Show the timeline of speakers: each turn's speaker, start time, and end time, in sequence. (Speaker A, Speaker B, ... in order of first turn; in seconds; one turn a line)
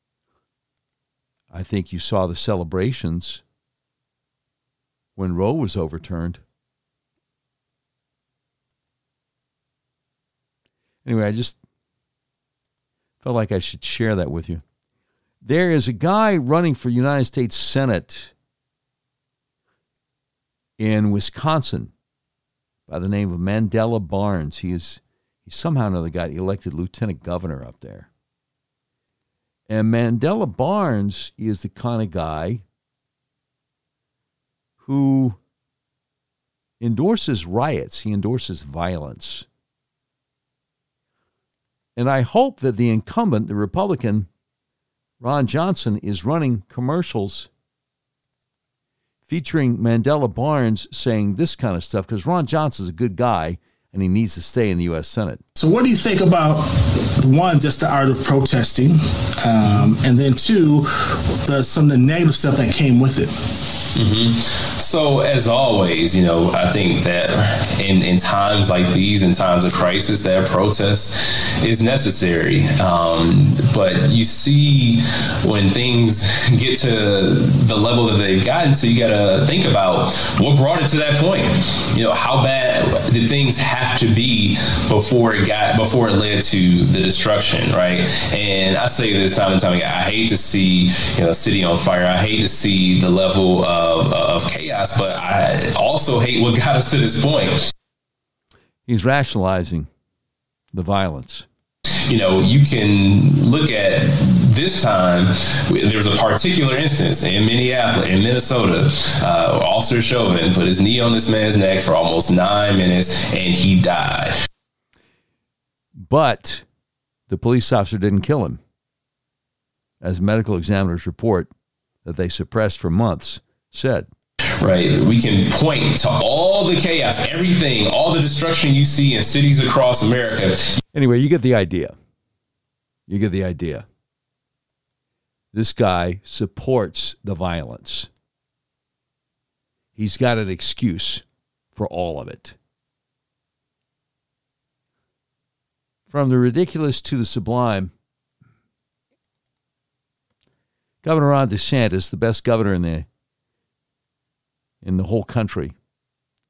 Speaker A: 1.5-3.4
Speaker A: 5.2-6.4
Speaker A: 11.0-11.6
Speaker A: 13.2-14.6
Speaker A: 15.4-18.3
Speaker A: 20.8-21.9
Speaker A: 22.9-28.1
Speaker A: 29.7-32.6
Speaker A: 34.8-35.4
Speaker A: 36.8-39.5
Speaker A: 42.0-44.3
Speaker A: 45.2-47.5
Speaker A: 49.3-55.4
Speaker B: 55.5-63.5
Speaker C: 63.9-97.7
Speaker A: 98.9-99.9
Speaker A: 100.7-101.5
Speaker C: 102.1-114.4
Speaker A: 116.0-116.6
Speaker A: 117.3-118.6
Speaker A: 120.0-121.5
Speaker A: 122.0-124.1
Speaker C: 124.6-130.8
Speaker A: 130.9-131.9
Speaker A: 133.1-133.8
Speaker A: 135.5-138.1
Speaker A: 139.9-141.2
Speaker A: 141.7-142.6
Speaker A: 146.1-147.9
Speaker A: 151.0-153.1
Speaker A: 154.8-155.7